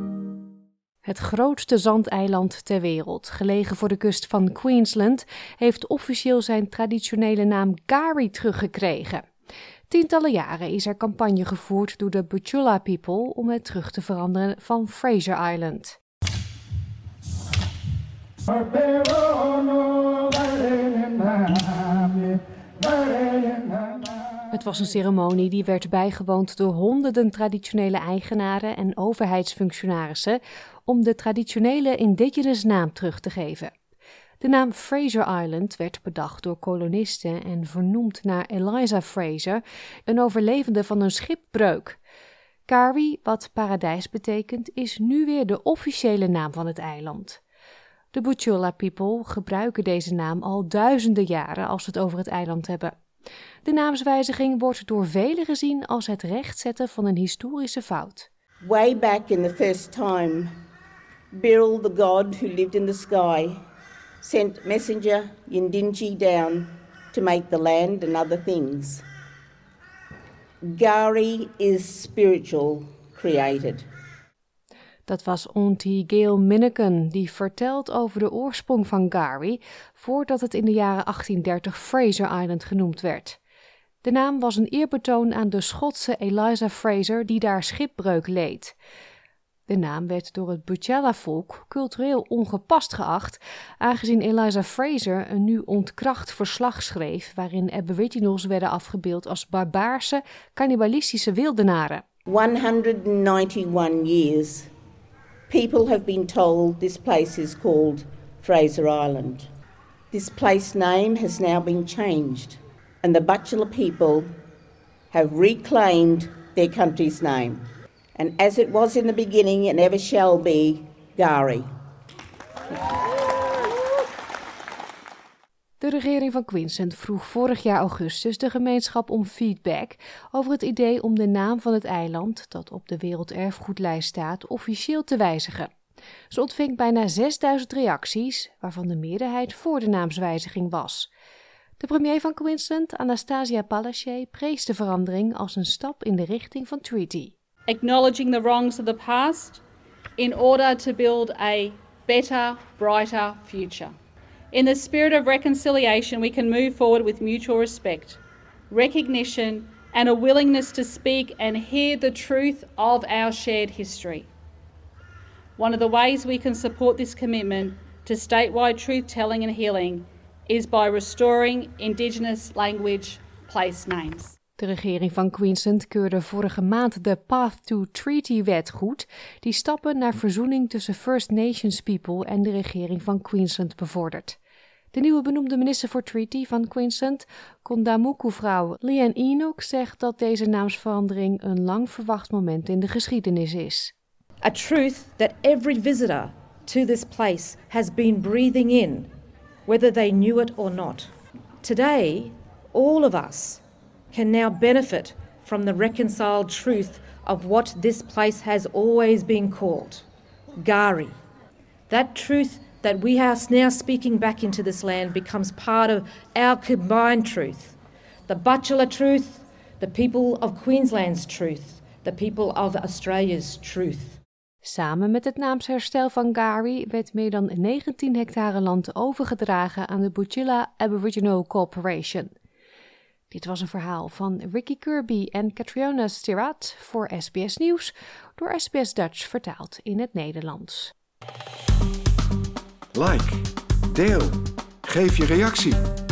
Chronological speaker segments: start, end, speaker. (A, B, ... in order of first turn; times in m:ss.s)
0:01.0-0:09.3 A
0:09.9-0:16.0 A
0:24.5-0:33.7 A
0:34.4-0:42.0 A
0:42.7-0:47.4 A
0:48.1-0:52.9 A
0:53.6-0:58.3 A
0:58.6-1:00.5 B
1:01.3-1:03.6 B
1:04.2-1:09.0 B
1:10.6-1:13.8 B
1:15.1-1:23.4 A
1:24.0-1:28.7 A
1:29.7-1:42.0 A
1:42.3-1:44.7 B
1:45.5-1:49.5 B
1:50.1-1:54.3 B
1:55.1-1:57.6 B
1:58.2-2:01.7 B
2:05.8-2:15.7 A
2:16.3-2:21.1 A
2:21.8-2:27.3 A
2:27.7-2:29.6 C
2:30.2-2:33.9 C
2:34.5-2:44.3 C
2:45.6-2:54.3 C
2:54.6-3:04.4 A
3:04.9-3:13.9 A
3:14.4-3:19.1 D
3:19.7-3:31.2 D
3:31.9-3:37.8 D
3:38.3-3:44.2 D
3:44.6-3:52.3 A
3:53.3-4:00.9 A
4:02.9-4:05.8 E